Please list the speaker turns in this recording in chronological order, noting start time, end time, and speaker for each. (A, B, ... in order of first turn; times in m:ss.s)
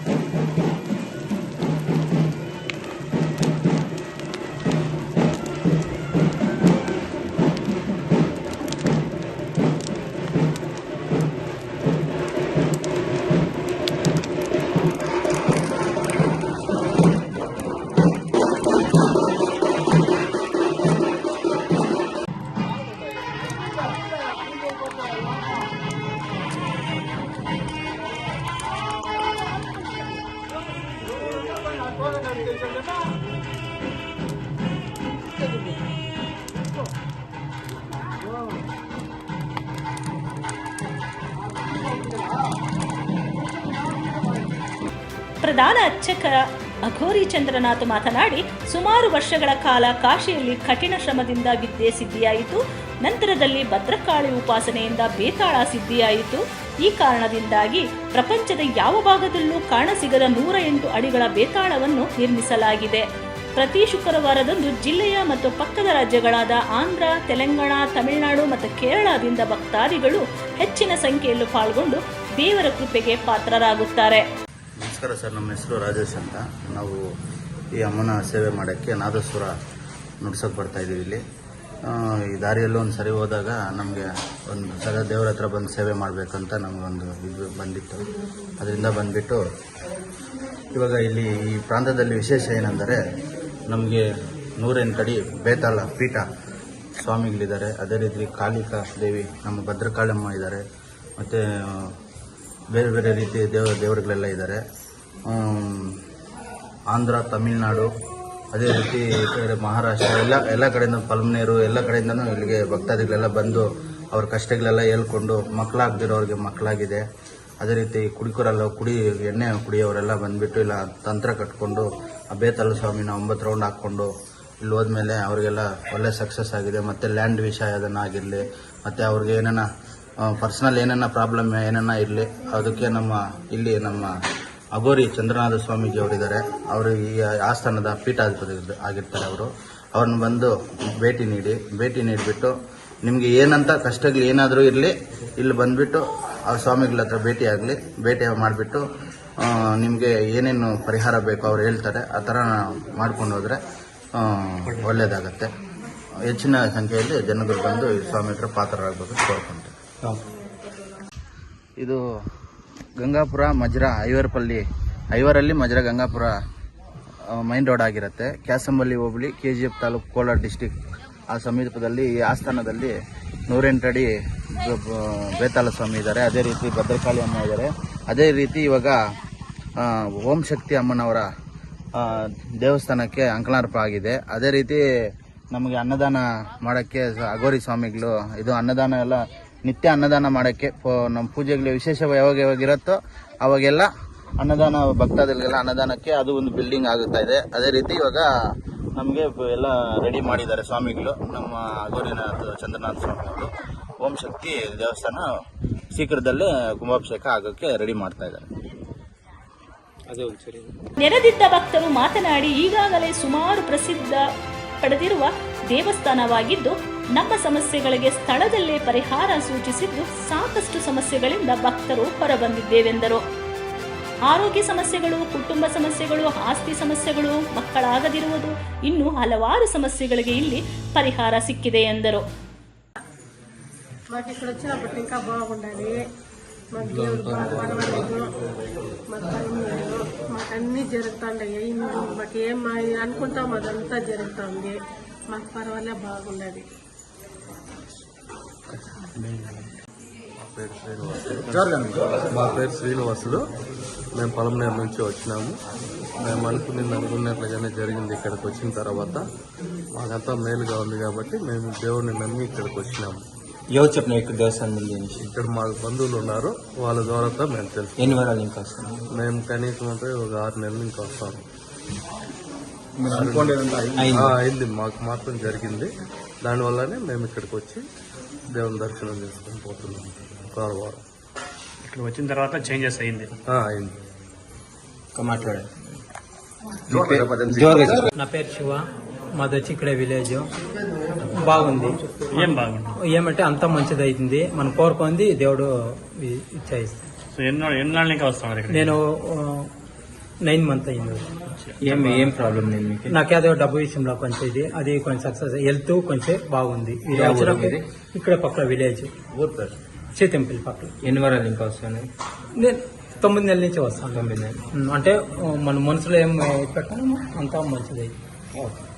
0:45.4-1:14.3 A
1:14.8-1:17.0 B
1:17.8-1:19.5 B
1:20.2-1:21.2 B
1:21.9-1:28.1 B
1:28.6-1:29.4 B
1:30.7-1:33.0 B
1:33.7-1:34.0 B
1:34.6-1:36.2 B
1:37.0-1:40.6 B
1:41.2-1:41.9 B
1:42.7-1:44.6 B
1:45.3-1:46.0 B
1:46.9-1:47.9 B
1:48.5-1:57.0 B
1:57.6-2:04.1 B
2:04.6-2:09.7 B
2:10.2-2:14.1 B
2:14.8-2:28.8 B
2:29.4-2:33.6 B
2:34.2-2:35.5 B
2:36.2-2:39.7 B
2:43.0-2:46.3 B
2:47.3-2:50.8 B
2:51.3-2:52.9 B
2:53.5-2:59.0 B
2:59.8-3:01.3 B
3:02.0-3:04.8 B
3:05.5-3:18.3 B
3:19.0-3:23.5 B
3:24.0-3:25.2 B
3:25.9-3:28.5 B
3:30.1-3:30.8 C
3:31.0-3:34.2 A
3:34.8-3:43.2 A
3:44.3-3:52.2 A
3:54.1-3:56.0 D
3:56.7-3:58.3 D
3:59.1-4:04.8 D
4:05.3-4:06.7 D
4:08.7-4:09.6 E
4:10.4-4:11.8 E
4:12.3-4:13.4 E
4:14.2-4:15.6 E
4:16.2-4:19.2 E
4:20.0-4:23.2 E
4:23.7-4:25.3 C
4:25.3-4:28.2 E
4:28.0-4:29.0 C
4:29.2-4:31.4 E
4:33.0-4:33.3 C
4:33.1-4:33.6 E
4:33.1-4:34.2 B
4:34.0-4:34.4 C
4:34.1-4:35.9 E
4:36.4-4:37.8 E
4:38.5-4:41.0 E
4:41.8-4:43.3 F
4:43.5-4:44.0 E
4:45.2-4:46.0 C
4:46.9-4:48.1 C
4:47.0-4:47.3 B
4:48.2-4:48.8 G
4:49.4-4:50.5 G
4:51.3-4:52.0 G
4:52.3-4:53.0 F
4:53.0-4:57.0 G
4:57.4-4:59.0 F
4:58.7-4:59.7 G
5:00.4-5:01.2 G
5:01.6-5:02.2 F
5:01.8-5:03.2 C
5:03.1-5:09.1 G
5:07.1-5:07.8 C
5:09.4-5:09.7 B
5:10.2-5:10.9 G
5:11.0-5:12.1 C
5:12.6-5:18.1 G
5:14.1-5:14.6 C
5:18.6-5:18.8 C